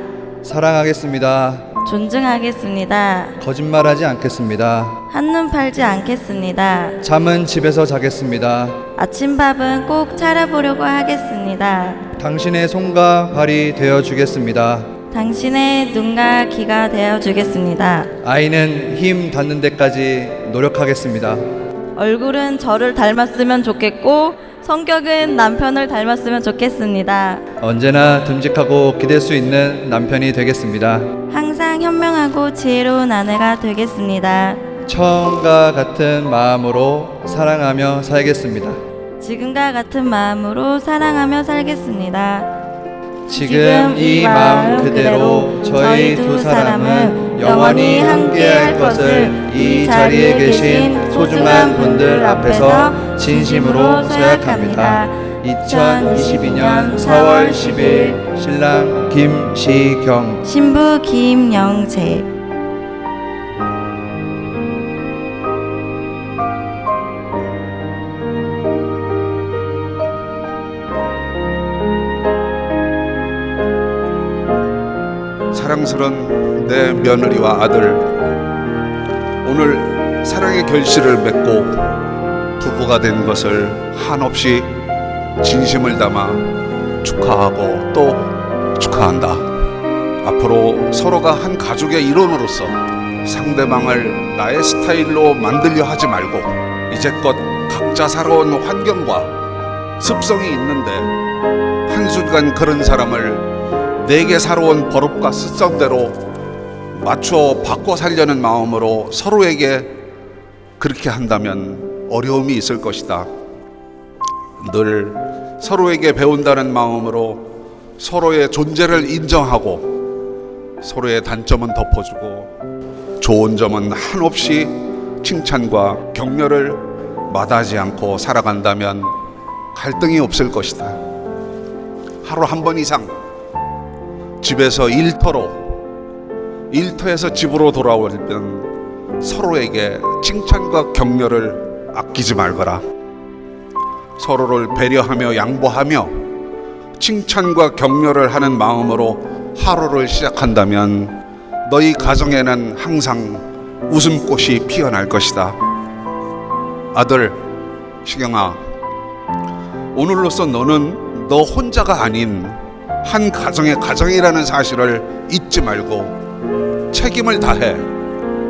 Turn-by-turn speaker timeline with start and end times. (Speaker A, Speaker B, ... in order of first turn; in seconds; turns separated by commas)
Speaker A: 0.4-1.7, Speaker B: 1.8-3.3, Speaker A: 3.4-5.0, Speaker B: 5.1-7.0, Speaker A: 7.0-8.8, Speaker B: 9.0-12.0, Speaker A: 12.2-14.9, Speaker B: 15.1-18.1, Speaker A: 18.2-21.4, Speaker B: 21.9-27.4, Speaker A: 27.6-31.1, Speaker B: 31.3-34.6, Speaker A: 34.9-38.8, Speaker B: 39.2-42.5, Speaker A: 43.3-60.4, Speaker B: 43.3-58.2, Speaker B: 60.4-62.2, Speaker C: 75.5-78.1, Speaker C: 79.4-81.9, Speaker C: 82.6-84.8, Speaker C: 85.4-86.5, Speaker C: 87.0-89.4, Speaker C: 90.2-99.3, Speaker C: 100.0-101.1, Speaker C: 101.9-106.2, Speaker C: 106.9-110.0, Speaker C: 110.8-113.3, Speaker C: 114.6-120.0, Speaker C: 120.8-122.5, Speaker C: 123.2-129.2, Speaker C: 129.7-131.0, Speaker C: 132.2-133.1, Speaker C: 134.4-135.8, Speaker C: 136.7-142.8, Speaker C: 144.2-146.2, Speaker C: 147.0-155.6, Speaker C: 156.9-157.4, Speaker C: 158.0-158.6, Speaker C: 159.9-166.2, Speaker C: 166.9-167.8